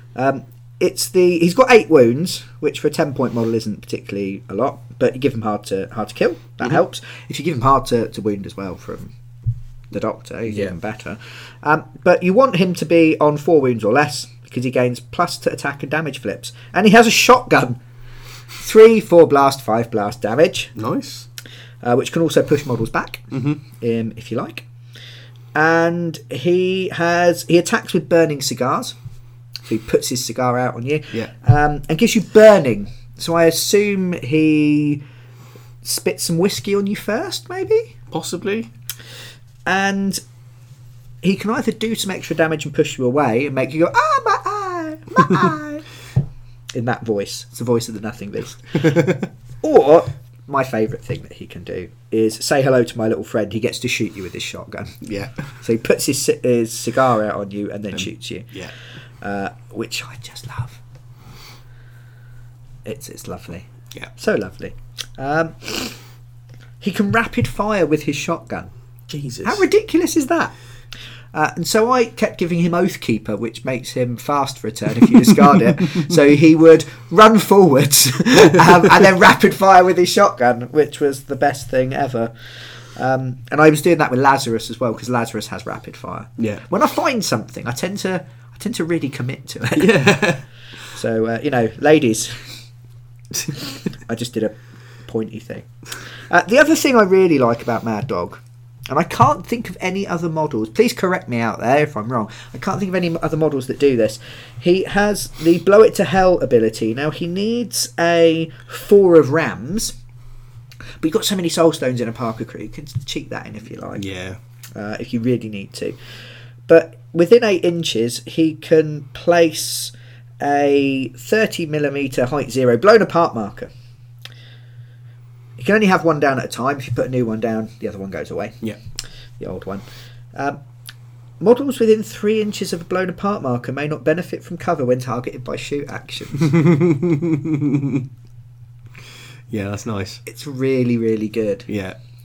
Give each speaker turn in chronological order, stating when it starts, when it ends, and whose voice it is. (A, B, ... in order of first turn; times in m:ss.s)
0:00.1-0:09.1 A
0:09.9-0:17.8 A
0:10.5-0:10.7 B
0:18.6-0:20.7 A
0:20.8-0:21.3 B
0:21.8-0:24.6 A
0:23.3-0:23.6 B
0:25.5-0:28.9 A
0:29.7-0:35.0 A
0:35.8-0:37.9 A
0:38.1-0:38.7 B
0:39.6-0:40.2 A
0:41.2-0:45.8 A
0:46.7-0:49.0 A
0:49.6-0:55.0 A
0:55.0-0:55.4 B
0:55.6-0:58.5 A
0:57.9-0:58.7 B
0:59.2-1:00.8 A
1:02.8-1:06.0 A
1:06.8-1:08.7 A
1:09.1-1:09.6 B
1:09.4-1:10.5 A
1:11.3-1:22.3 A
1:23.0-1:30.3 A
1:26.4-1:26.6 B
1:29.8-1:30.4 B
1:30.9-1:32.6 A
1:34.0-1:35.7 A
1:36.3-1:50.0 A
1:51.0-1:54.0 A
1:53.9-1:54.4 B
1:54.7-1:56.0 A
1:56.7-2:03.7 A
2:05.6-2:08.6 A
2:09.4-2:10.6 A
2:11.4-2:16.5 A
2:16.4-2:18.0 B
2:19.5-2:20.2 B
2:20.2-2:21.7 A
2:21.7-2:22.0 B